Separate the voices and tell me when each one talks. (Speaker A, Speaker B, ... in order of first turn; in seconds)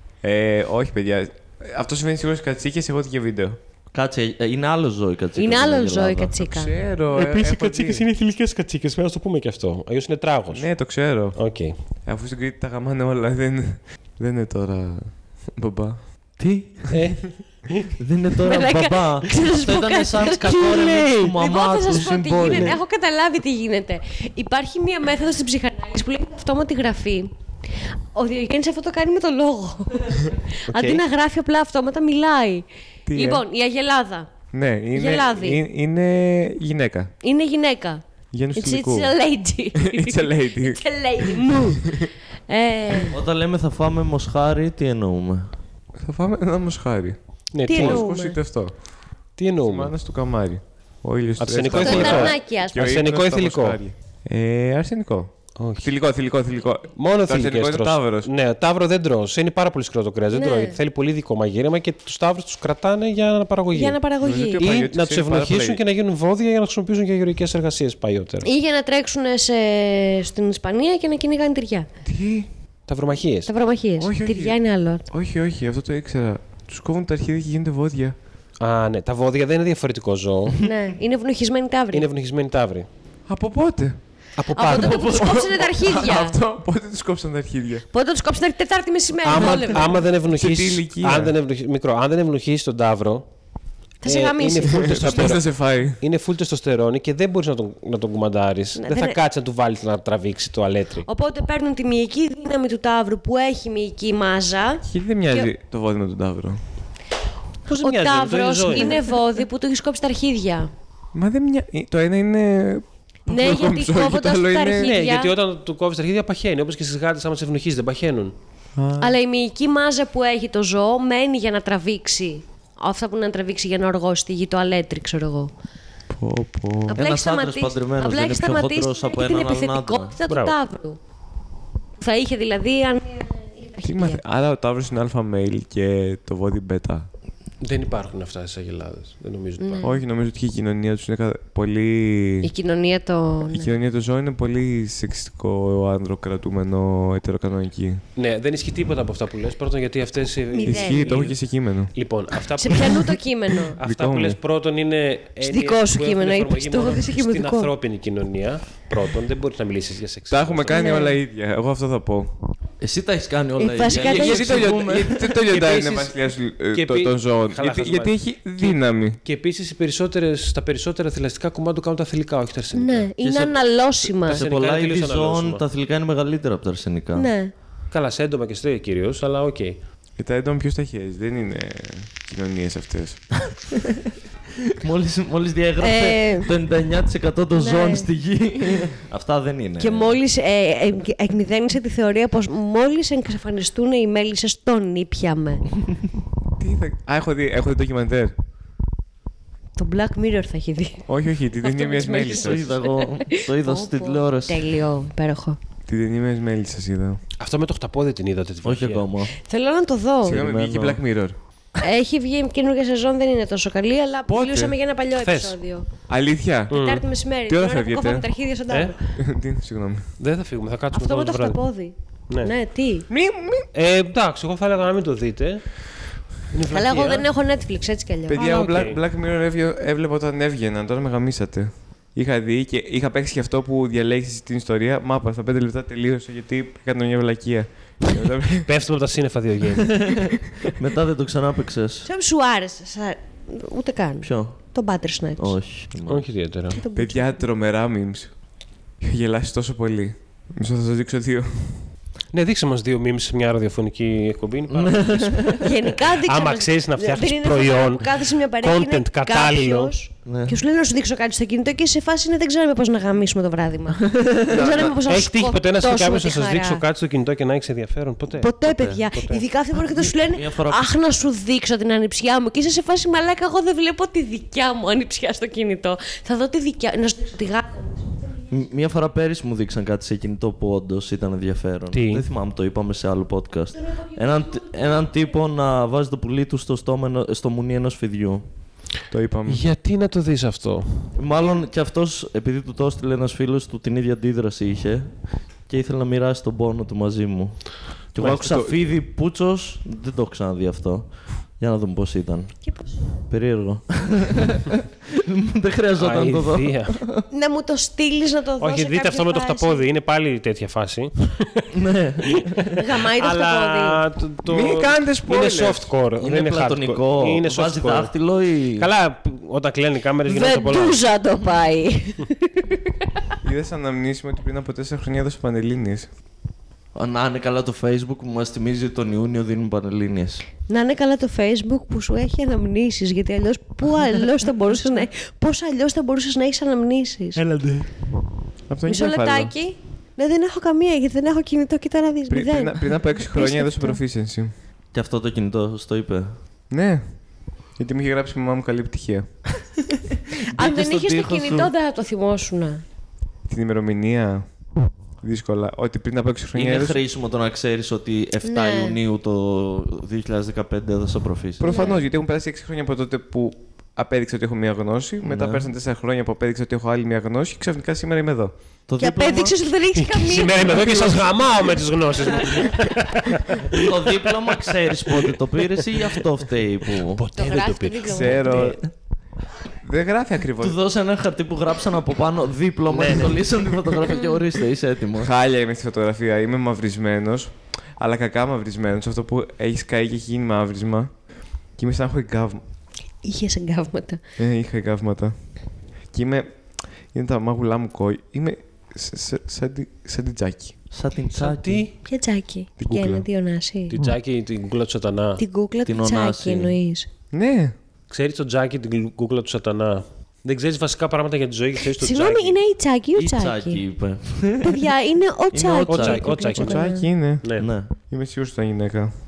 Speaker A: 0.2-3.6, 6.5-8.0, 10.5-11.4, 12.0-16.0, 33.0-33.4, 34.5-37.1, 38.3-39.1, 39.8-42.1, 46.0-48.8, 49.6-58.3, 64.2-65.8, 72.0-72.5, 74.0-74.6, 75.1-78.2, 83.3-84.0, 85.0-87.8, 90.3-91.3, 94.7-96.0, 104.8-106.6, 111.1-114.9, 118.8-119.1, 126.1-127.0, 133.8-137.1, 139.8-142.5, 143.5-148.0, 150.6-151.9, 153.8-154.4, 160.3-162.3, 164.0-169.2, 180.2-183.2, 196.6-198.3, 201.1-202.7, 205.9-207.2, 210.2-211.3, 214.3-214.7, 216.1-216.8, 217.5-218.2, 219.2-220.1, 223.1-223.7, 228.3-238.7, 246.9-248.4, 249.0-251.8, 289.1-289.6, 298.2-298.7, 314.5-315.9, 323.4-326.1, 338.7-339.5, 342.3-344.5, 346.7-347.1, 347.8-349.3, 353.5-354.5, 355.2-357.0, 361.6-368.6, 370.8-371.1, 378.1-378.8, 379.8-380.8, 385.2-391.1, 391.7-392.6, 394.4-395.4, 396.1-400.8, 402.8-403.3, 407.3-407.7, 416.6-417.6, 418.1-419.1
Speaker B: 3.9-6.3, 16.4-17.0, 18.0-22.8, 43.1-45.5, 126.9-130.2, 162.8-165.4, 173.2-177.3, 183.7-184.0, 184.7-190.2, 202.0-204.7, 208.6-209.3, 210.2-211.0, 240.1-242.1, 244.2-244.6, 245.4-246.2, 254.7-255.7, 260.2-260.6, 264.0-264.9, 268.6-269.0, 270.1-270.8, 278.5-288.4, 291.1-302.6, 303.3-307.2, 311.7-312.8, 316.2-318.9, 326.9-330.4, 337.4-337.9, 344.9-346.3, 350.5-351.7, 356.5-361.9, 365.2-365.7, 368.9-369.6, 373.7-377.2, 380.6-385.3, 400.9-401.9, 405.8-406.8, 413.1-414.9, 415.5-416.5, 417.6-417.9
Speaker C: 5.3-6.8, 18.4-27.3, 28.1-34.3, 34.9-35.6, 37.2-38.0, 38.5-43.2, 47.6-48.4, 51.7-52.8, 60.3-60.8, 63.7-64.7, 68.4-71.9, 73.5-75.0, 80.6-82.1, 84.5-86.4, 87.9-89.9, 94.0-95.4, 98.8-99.2, 101.0-105.5, 107.7-110.7, 113.3-115.3, 119.0-125.5, 126.9-131.0, 132.0-134.2, 139.6-140.0, 142.4-143.7, 150.5-151.3, 152.6-153.8, 155.4-157.7, 160.7-161.2, 163.6-164.6, 172.7-174.5, 177.1-177.5, 185.8-186.5, 187.5-188.1, 189.8-195.7, 199.8-201.0, 201.6-205.6, 209.4-210.4, 211.8-215.8, 216.7-219.1, 220.9-223.1, 226.7-228.4, 242.0-245.6, 246.7-247.4, 255.6-266.8, 268.3-278.6, 283.8-285.2, 302.6-303.2, 307.3-309.9, 312.8-314.0, 320.2-322.9, 330.7-337.4, 338.9-344.0, 350.5-352.8, 358.4-359.0, 361.6-362.0, 369.0-371.1, 377.4-378.8, 393.2-394.2, 402.0-404.0, 405.4-407.1, 411.8-413.8, 414.6-417.1
Speaker D: 7.1-10.7, 11.3-11.7, 16.9-17.9, 20.7-21.3, 22.5-22.8, 30.7-31.0, 47.5-48.0, 49.4-49.9, 51.4-53.8, 55.6-55.9, 57.0-64.0, 64.6-68.5, 72.9-73.5, 78.6-80.6, 81.9-82.9, 84.4-85.2, 89.2-93.3, 94.0-101.0, 107.7-109.2, 114.8-118.3, 130.3-130.6, 137.6-139.9, 148.2-151.4, 151.9-153.2, 153.8-160.8, 164.2-164.6, 165.4-173.1, 174.2-175.6, 177.9-179.8, 207.4-209.1, 215.2-215.6, 216.7-217.1, 218.7-218.9, 220.2-221.6, 223.7-227.2, 228.3-229.0, 238.6-240.3, 246.1-246.8, 252.3-255.5, 256.2-259.9, 264.5-268.5, 269.1-269.4, 281.9-282.2, 289.5-291.1, 298.2-298.5, 306.0-307.0, 308.6-311.7, 313.1-318.1, 318.8-321.0, 369.9-374.2, 374.9-376.2, 376.9-378.7, 382.9-383.4, 401.3-401.9, 403.9-405.4, 408.1-412.6, 415.9-416.8, 417.4-417.7